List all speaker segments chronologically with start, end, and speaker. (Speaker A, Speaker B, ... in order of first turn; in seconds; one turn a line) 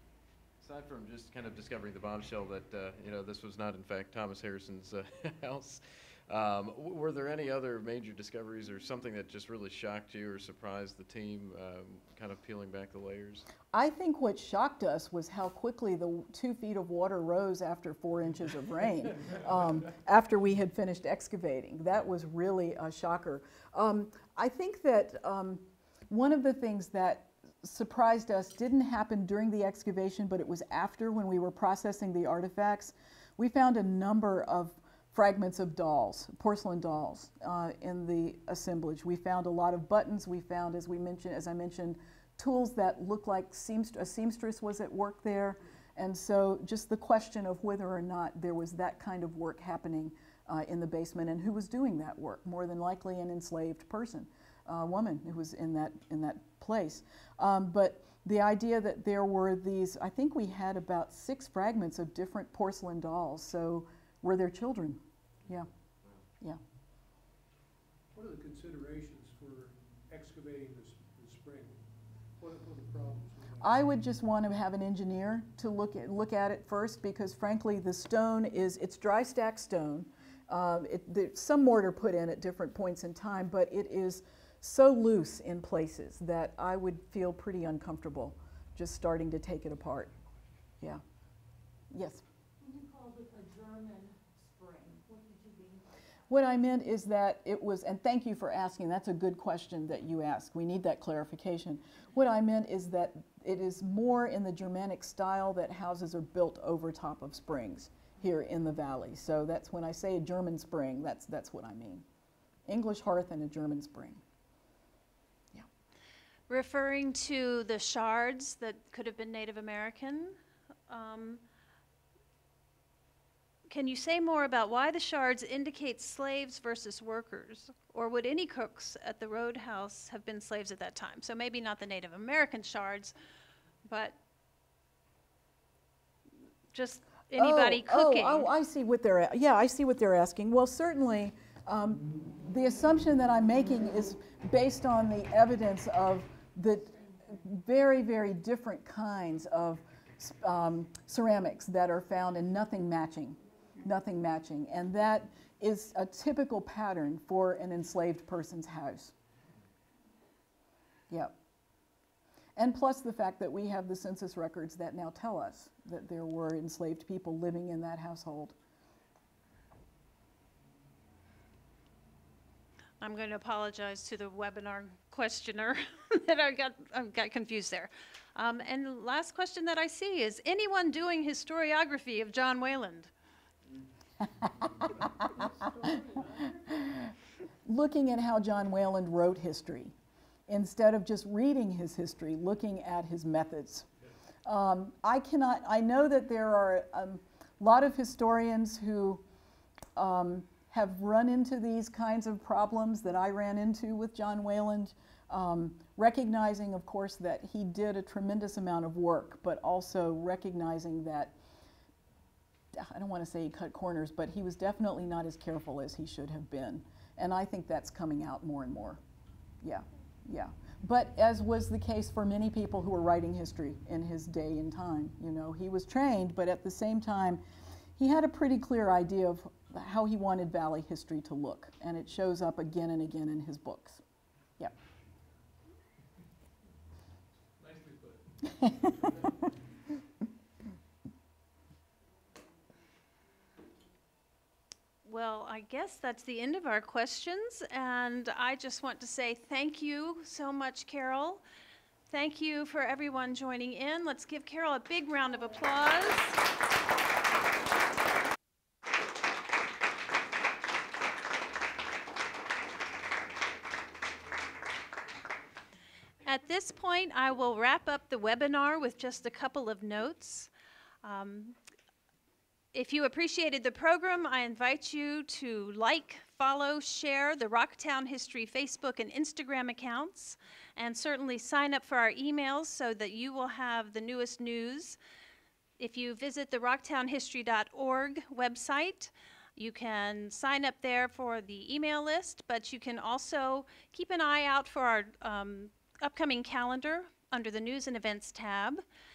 Speaker A: 0.6-13.5
Speaker B: 13.7-65.7
Speaker C: 68.1-73.8
Speaker B: 73.6-90.1
Speaker B: 91.9-92.2
Speaker D: 92.6-96.0
Speaker B: 96.3-112.0
Speaker B: 112.7-114.2
Speaker E: 116.5-121.4
Speaker E: 123.7-133.1
Speaker E: 133.9-134.2
Speaker E: 136.7-138.5
Speaker B: 137.3-159.1
Speaker B: 161.1-161.3
Speaker B: 162.6-168.5
Speaker E: 173.0-183.1
Speaker B: 184.4-187.1
Speaker B: 187.7-189.9
Speaker B: 190.5-193.9
Speaker B: 194.4-199.2
Speaker B: 199.9-211.3
Speaker B: 212.7-219.0
Speaker B: 219.6-227.4
Speaker B: 228.0-234.0
Speaker C: 237.6-239.3
Speaker E: 245.0-251.4
Speaker E: 252.1-256.4
Speaker E: 266.2-270.5
Speaker E: 271.0-271.6
Speaker E: 272.7-285.0
Speaker E: 285.8-298.8